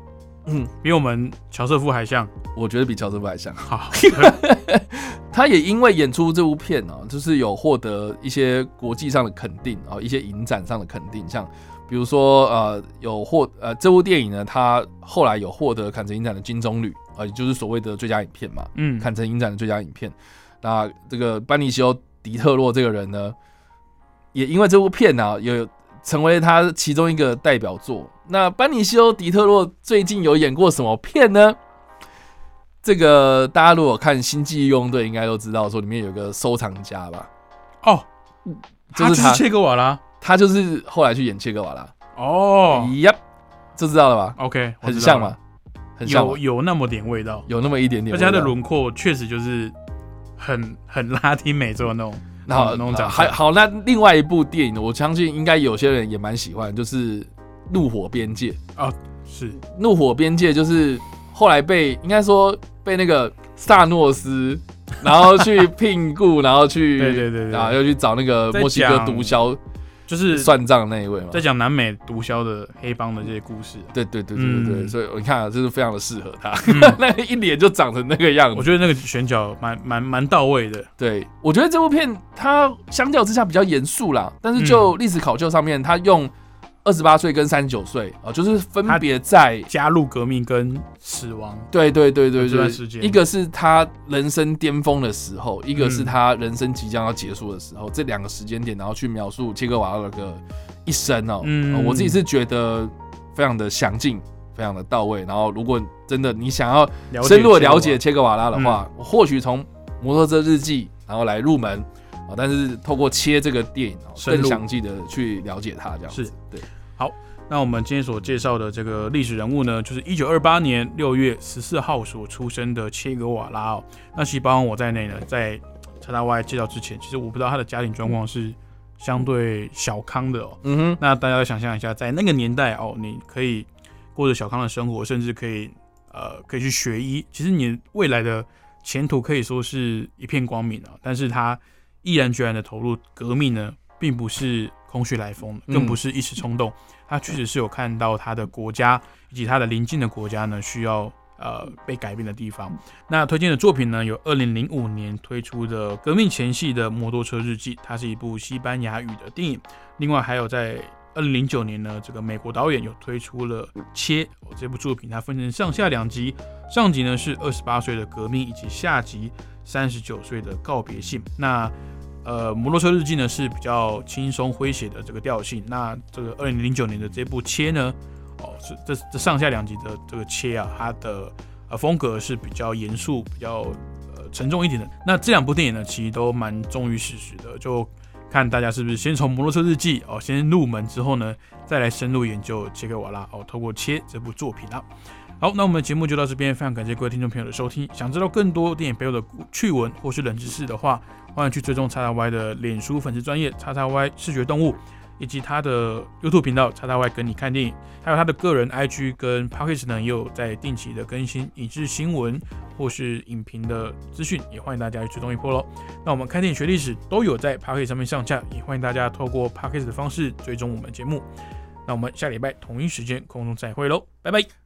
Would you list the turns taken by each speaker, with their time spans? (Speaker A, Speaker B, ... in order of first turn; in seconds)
Speaker A: 0.8-2.3, 3.6-4.3, 18.7-19.1, 38.9-40.0, 42.1-42.9, 44.4-45.3, 46.0-47.5, 48.1-49.7, 50.4-53.4, 58.8-59.6, 67.0-67.8, 68.5-69.5, 70.1-70.5, 71.3-74.9, 76.7-77.0, 78.5-80.9, 84.5-84.9, 89.7-91.7, 92.3-93.2, 95.7-96.1, 101.4-102.2, 107.1-108.0, 108.5-108.8, 114.2-114.6, 117.0-194.9, 195.4-221.2, 221.8-224.5
Speaker B: 2.5-23.3, 24.3-31.6, 32.8-37.3, 38.9-39.4, 40.2-41.9, 42.7-43.2, 43.8-45.4, 46.0-46.4, 47.5-48.5, 52.5-58.6, 59.7-69.6, 70.3-71.4, 73.9-78.7, 81.0-86.3, 86.8-89.7, 91.7-116.6, 130.6-131.0, 145.7-146.0